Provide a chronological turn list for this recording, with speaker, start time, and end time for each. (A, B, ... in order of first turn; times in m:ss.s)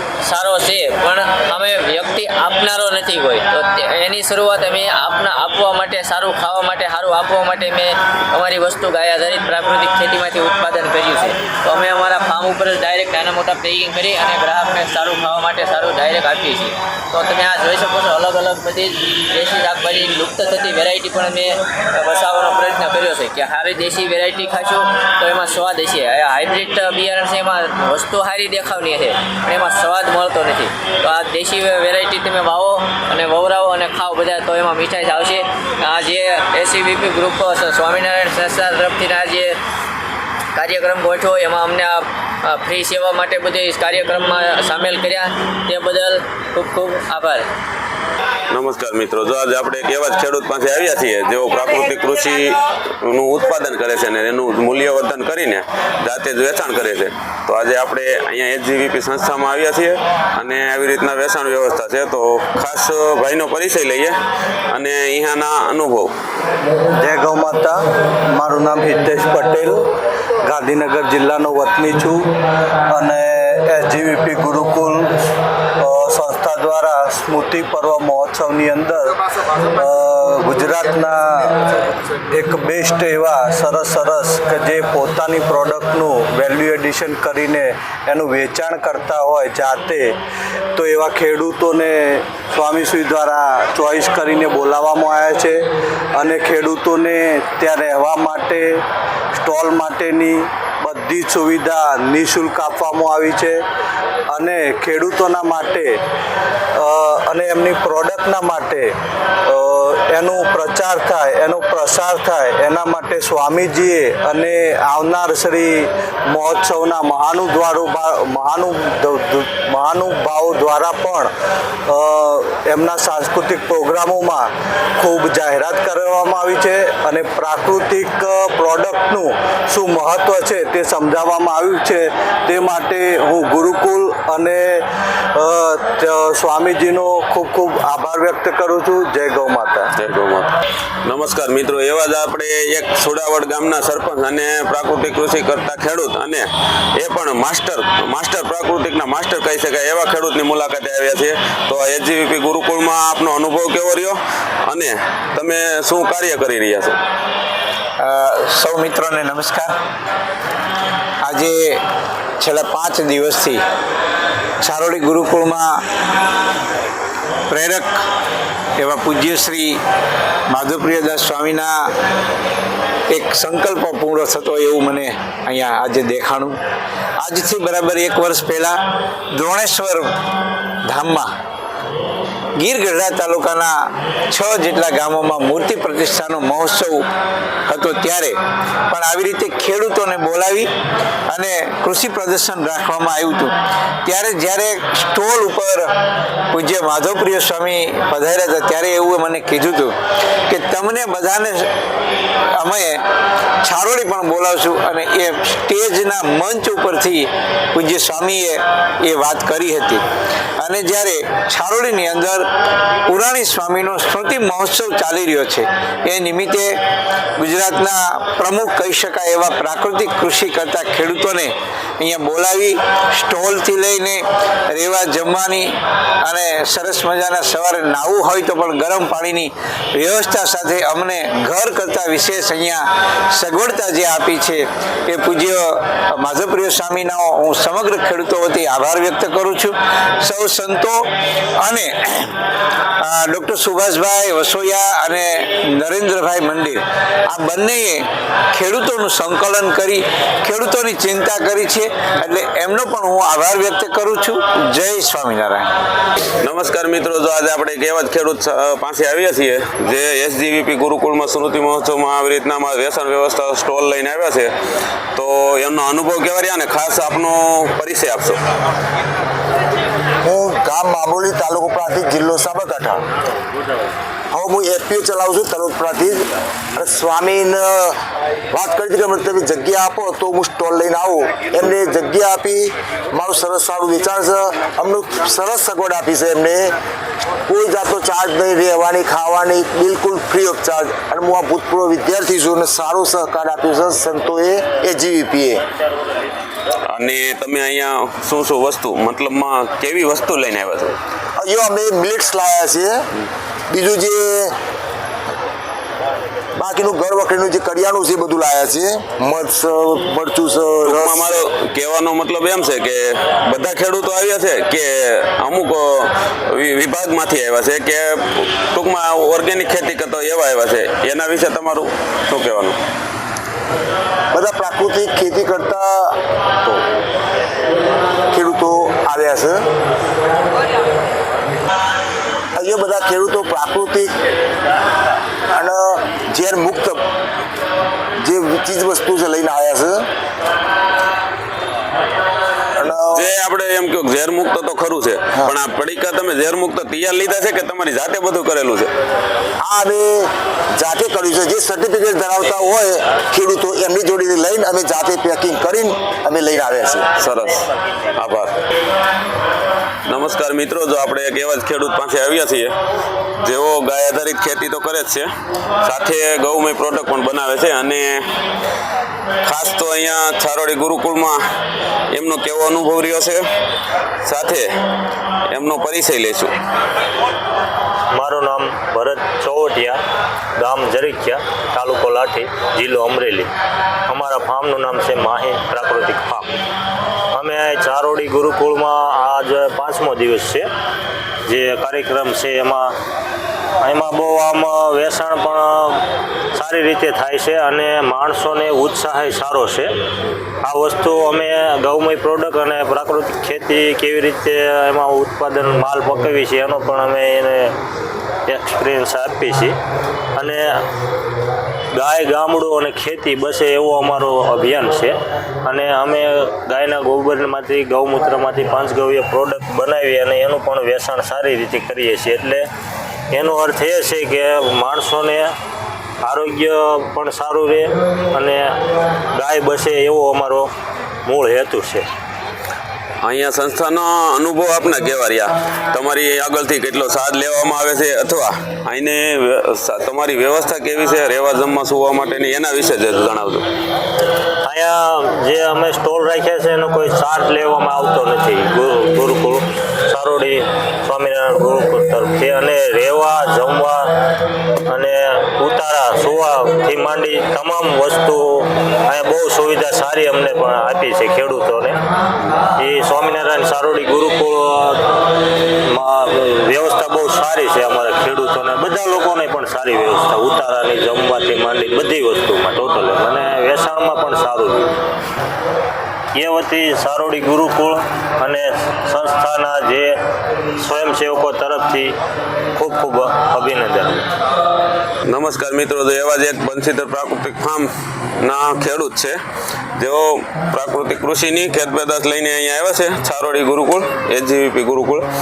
0:00.2-0:39.6 A
0:40.6-0:47.5 A
0:48.5-1:04.2 B
1:04.7-1:06.1 B
1:07.0-1:07.8 C
1:08.3-1:09.8 C
1:10.4-1:12.3 C
1:12.9-1:15.2 C
1:15.8-1:19.2 C
1:19.8-1:21.7 C
1:22.3-1:30.2 C
1:30.8-1:35.6 C
1:36.2-1:38.8 C
1:39.4-1:43.6 C
1:44.3-1:46.0 C
1:46.8-1:48.9 C
1:49.5-2:01.3 C
2:01.9-2:14.8 C
2:15.3-2:19.9 C
2:20.0-2:20.5 B
2:21.0-2:37.0 B
2:38.0-2:39.7 D
2:41.3-2:41.8 D
2:42.4-2:43.6 D
2:44.6-2:45.8 D
2:47.5-2:48.0 D
2:48.8-2:49.8 D
2:50.5-2:51.8 D
2:53.1-2:56.6 D
2:57.2-2:58.8 D
2:59.3-3:00.1 D
3:00.9-3:01.3 D
3:02.6-3:07.0 D
3:07.7-3:08.4 D
3:08.9-3:10.7 D
3:11.3-3:13.5 D
3:14.0-3:15.9 D
3:16.5-3:20.0 D
3:20.5-3:21.7 D
3:22.6-3:23.0 D
3:23.6-3:30.0 D
3:30.6-3:32.5 D
3:33.1-3:36.8 D
3:37.4-3:44.2 D
3:44.7-3:45.7 D
3:46.3-3:52.8 D
3:53.4-4:01.0 D
4:01.6-4:02.4 D
4:03.0-4:15.7 D
4:16.4-4:24.5 B
4:25.2-4:28.4 B
4:30.2-4:33.0 E
4:34.3-4:38.0 E
4:38.5-4:46.7 E
4:47.5-4:55.6 E
4:56.9-5:01.0 B
5:01.4-5:03.1 E
5:03.7-5:04.5 E
5:06.6-5:11.3 E
5:10.8-5:22.8 B
5:24.3-5:26.8 E
5:28.3-5:29.6 E
5:32.6-5:34.1 E
5:35.5-5:37.0 E
5:38.2-5:40.1 E
5:42.8-5:43.3 E
5:43.1-5:48.9 B
5:49.6-5:57.1 E
5:57.2-5:57.6 B
5:58.2-5:58.6 B
6:00.1-6:02.7 B
6:03.4-6:05.3 B
6:05.8-6:08.3 B
6:09.4-6:11.4 B
6:12.1-6:13.4 B
6:14.2-6:14.7 B
6:15.5-6:16.5 B
6:18.1-6:20.0 F
6:20.6-6:23.5 F
6:24.1-6:26.5 F
6:27.3-6:30.7 F
6:31.5-6:32.9 F
6:33.8-6:36.0 F
6:36.6-6:39.9 F
6:40.6-6:47.7 F
6:48.5-6:49.8 F
6:50.4-6:50.7 F
6:52.0-7:02.7 F
7:03.3-7:05.5 F
7:06.2-7:08.8 F
7:09.3-7:10.7 F
7:11.2-7:12.1 F
7:13.2-7:23.6 B
7:24.6-7:34.1 F
7:34.9-7:42.0 F
7:42.8-7:45.0 F
7:45.9-7:55.0 F
7:56.4-8:00.2 F
8:00.8-8:02.1 F
8:02.8-8:04.3 F
8:05.3-8:09.4 B
8:10.0-8:15.2 B